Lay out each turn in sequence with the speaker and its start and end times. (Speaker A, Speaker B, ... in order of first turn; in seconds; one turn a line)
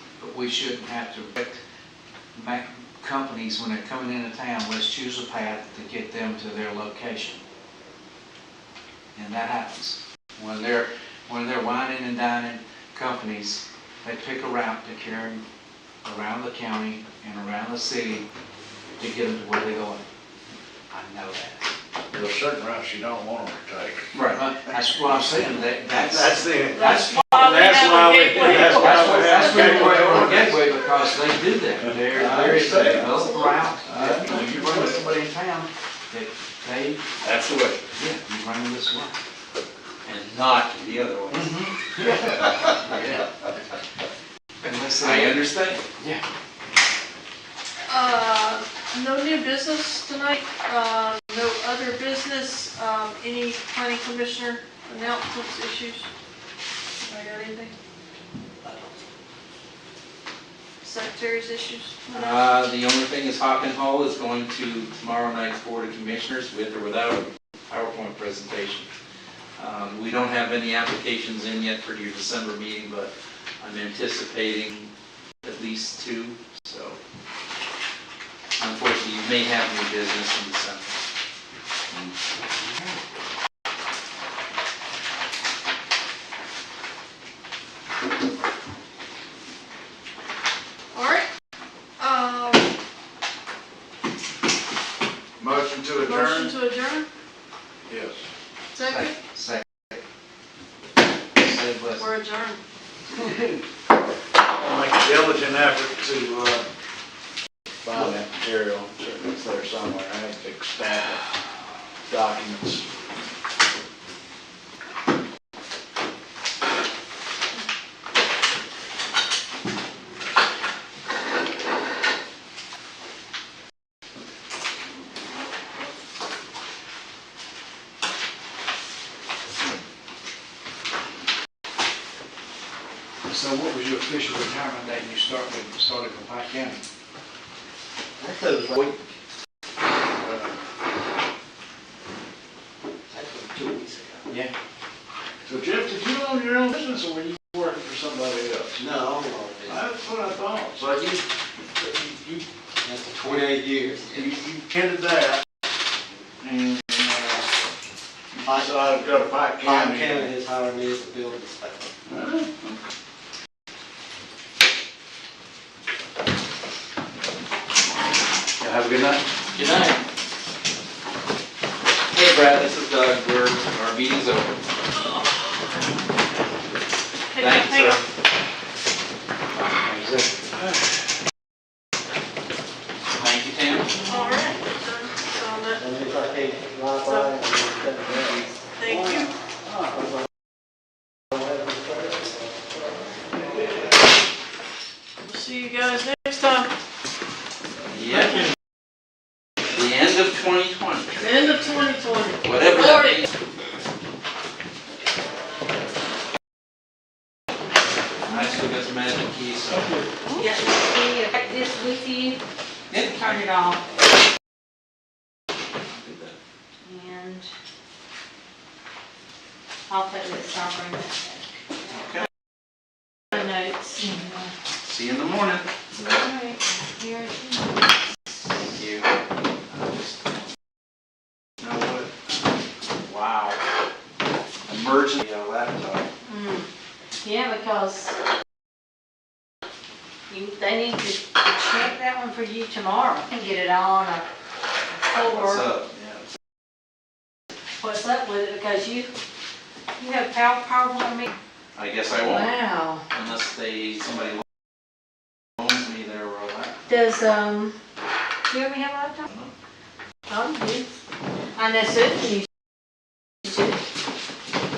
Speaker A: 0.2-1.6
Speaker A: 2.3-7.4
Speaker A: 9.1-15.4
Speaker A: 16.0-18.2
Speaker A: 19.0-20.0
Speaker A: 20.9-21.6
Speaker B: 22.1-24.1
Speaker C: 24.1-24.4
Speaker A: 24.3-27.4
Speaker B: 25.9-30.6
Speaker D: 26.9-29.8
Speaker A: 28.6-37.0
Speaker B: 32.1-33.3
Speaker B: 33.8-35.1
Speaker B: 37.2-37.8
Speaker A: 38.0-39.1
Speaker C: 40.0-41.6
Speaker B: 42.1-42.7
Speaker A: 42.8-43.3
Speaker A: 44.6-45.4
Speaker C: 45.0-45.8
Speaker D: 47.9-56.1
Speaker D: 57.0-57.7
Speaker D: 60.8-62.5
Speaker C: 62.1-68.9
Speaker C: 69.6-74.9
Speaker C: 75.4-77.0
Speaker C: 78.6-81.0
Speaker A: 82.7-82.9
Speaker D: 90.9-91.3
Speaker D: 92.0-92.7
Speaker B: 95.4-96.5
Speaker D: 95.9-97.1
Speaker B: 97.9-98.2
Speaker D: 98.7-99.2
Speaker A: 98.8-99.6
Speaker A: 101.4-102.0
Speaker D: 101.9-102.6
Speaker B: 104.5-106.7
Speaker B: 107.8-111.2
Speaker B: 112.1-112.8
Speaker A: 133.3-136.8
Speaker E: 138.2-139.1
Speaker B: 140.2-140.5
Speaker E: 143.1-144.3
Speaker B: 145.4-148.8
Speaker E: 148.8-149.9
Speaker B: 149.7-152.4
Speaker E: 152.8-154.4
Speaker B: 154.1-155.4
Speaker B: 156.4-157.4
Speaker E: 158.4-158.8
Speaker B: 158.4-160.3
Speaker E: 159.6-161.9
Speaker B: 162.1-162.8
Speaker B: 168.7-169.1
Speaker C: 169.6-170.0
Speaker C: 172.1-174.5
Speaker D: 177.3-178.0
Speaker C: 177.4-178.0
Speaker A: 179.6-180.5
Speaker C: 183.2-184.0
Speaker D: 184.1-185.8
Speaker E: 185.8-189.3
Speaker D: 187.0-187.4
Speaker D: 188.8-189.3
Speaker E: 191.9-192.3
Speaker D: 195.2-196.7
Speaker C: 197.9-198.4
Speaker C: 199.7-201.3
Speaker D: 201.2-203.2
Speaker C: 202.4-203.3
Speaker C: 208.3-210.0
Speaker D: 210.2-210.5
Speaker F: 210.4-212.4
Speaker C: 212.9-213.4
Speaker F: 213.1-213.8
Speaker C: 215.9-216.4
Speaker F: 216.8-217.5
Speaker F: 219.9-221.4
Speaker C: 221.9-222.3
Speaker F: 223.3-224.5
Speaker C: 224.8-225.7
Speaker F: 225.9-227.9
Speaker C: 228.7-229.1
Speaker C: 229.7-230.5
Speaker C: 231.6-232.3
Speaker C: 233.0-233.6
Speaker C: 234.7-236.1
Speaker F: 236.2-236.7
Speaker F: 237.2-238.2
Speaker F: 240.3-244.3
Speaker F: 245.0-245.6
Speaker C: 245.2-246.3
Speaker F: 247.8-249.1
Speaker F: 250.0-251.3
Speaker C: 251.8-252.5
Speaker F: 252.2-253.0
Speaker C: 253.1-254.4
Speaker C: 255.6-256.8
Speaker F: 256.9-257.7
Speaker F: 258.5-259.2
Speaker C: 259.2-259.5
Speaker F: 260.3-260.9
Speaker F: 261.6-262.4
Speaker F: 263.4-263.8